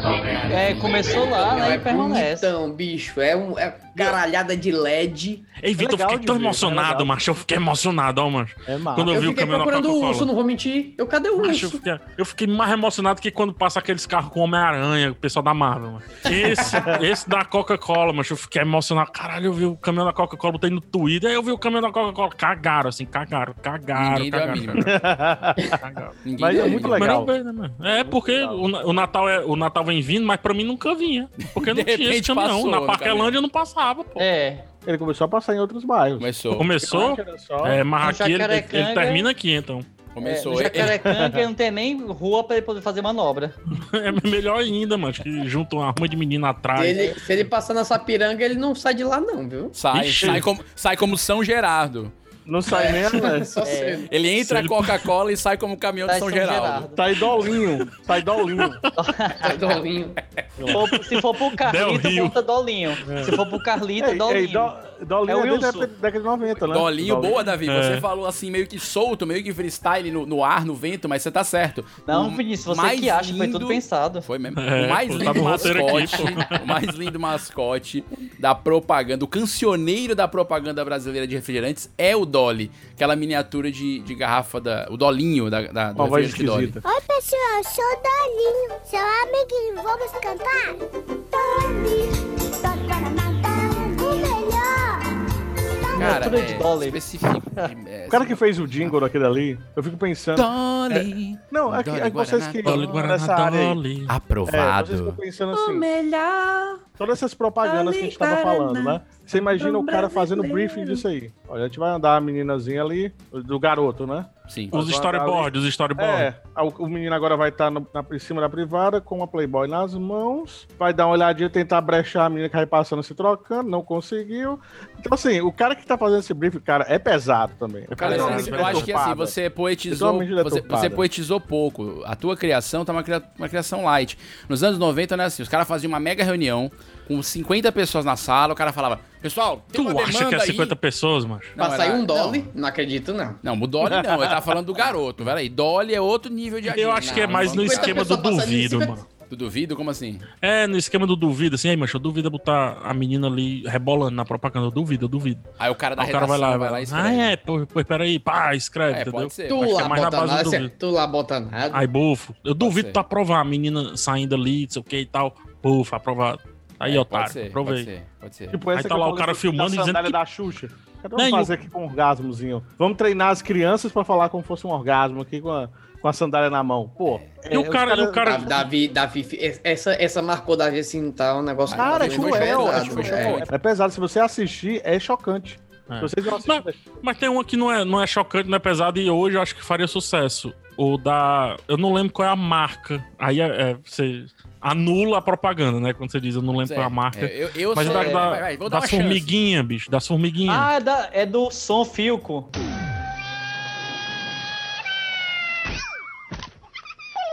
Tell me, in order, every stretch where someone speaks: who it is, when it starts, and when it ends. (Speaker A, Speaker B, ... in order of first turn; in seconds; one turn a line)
Speaker A: 0.5-2.5
Speaker B: 1.3-5.5
Speaker C: 5.6-10.3
Speaker D: 5.8-7.1
Speaker D: 8.7-9.2
Speaker B: 9.1-11.8
Speaker C: 11.4-24.9
Speaker E: 23.9-24.9
Speaker D: 24.8-25.7
Speaker C: 25.8-34.2
Speaker E: 26.2-27.1
Speaker D: 26.4-27.3
Speaker D: 28.0-28.7
Speaker E: 31.4-33.4
Speaker A: 34.2-34.6
Speaker D: 34.8-36.3
Speaker E: 36.2-36.7
Speaker C: 36.5-39.9
Speaker D: 36.8-37.8
Speaker A: 38.0-39.3
Speaker E: 40.1-41.0
Speaker A: 40.2-43.5
Speaker D: 40.9-41.4
Speaker C: 43.9-47.1
Speaker B: 46.8-49.8
Speaker E: 49.7-52.1
Speaker C: 49.9-50.4
Speaker D: 52.5-53.5
Speaker B: 52.7-54.1
Speaker A: 53.6-54.0
Speaker E: 54.1-56.9
Speaker C: 54.4-54.9
Speaker A: 56.0-57.0
Speaker D: 57.0-58.8
Speaker A: 59.0-59.6
Speaker B: 59.4-60.1
Speaker A: 60.7-64.7
Speaker C: 61.2-62.4
Speaker D: 63.0-63.4
Speaker D: 64.0-67.4
Speaker A: 65.2-65.9
Speaker E: 66.7-86.8
Speaker C: 67.7-68.0
Speaker A: 72.1-74.2
Speaker C: 74.5-76.6
Speaker D: 86.0-86.8
Speaker F: 86.8-90.8
Speaker F: 91.3-95.1
Speaker A: 95.9-97.0
Speaker E: 96.0-98.9
Speaker D: 98.1-103.8
Speaker E: 100.3-102.8
Speaker C: 102.6-104.1
Speaker E: 104.1-105.2
Speaker D: 104.5-105.9
Speaker G: 105.5-106.8
Speaker D: 107.0-129.3
Speaker G: 107.6-111.0
Speaker C: 114.7-116.3
Speaker C: 127.9-129.0
Speaker E: 128.0-140.7
Speaker D: 129.9-131.0
Speaker C: 139.7-141.5
Speaker E: 141.6-142.5
Speaker B: 141.6-143.4
Speaker E: 143.4-148.2
Speaker D: 143.8-144.4
Speaker C: 146.7-149.1
Speaker B: 147.0-149.0
Speaker E: 149.3-150.3
Speaker C: 150.4-155.4
Speaker E: 155.6-157.3
Speaker C: 156.0-160.7
Speaker E: 158.9-159.6
Speaker B: 159.5-161.8
Speaker C: 161.7-167.9
Speaker E: 162.6-163.0
Speaker E: 166.8-168.6
Speaker D: 168.5-178.5
Speaker C: 168.7-170.2
Speaker C: 171.2-171.5
Speaker C: 177.5-178.7
Speaker B: 178.2-183.4
Speaker E: 181.7-183.5
Speaker D: 181.7-186.8
Speaker C: 185.9-200.7
Speaker E: 196.6-199.3
Speaker A: 197.8-198.3
Speaker A: 200.5-202.5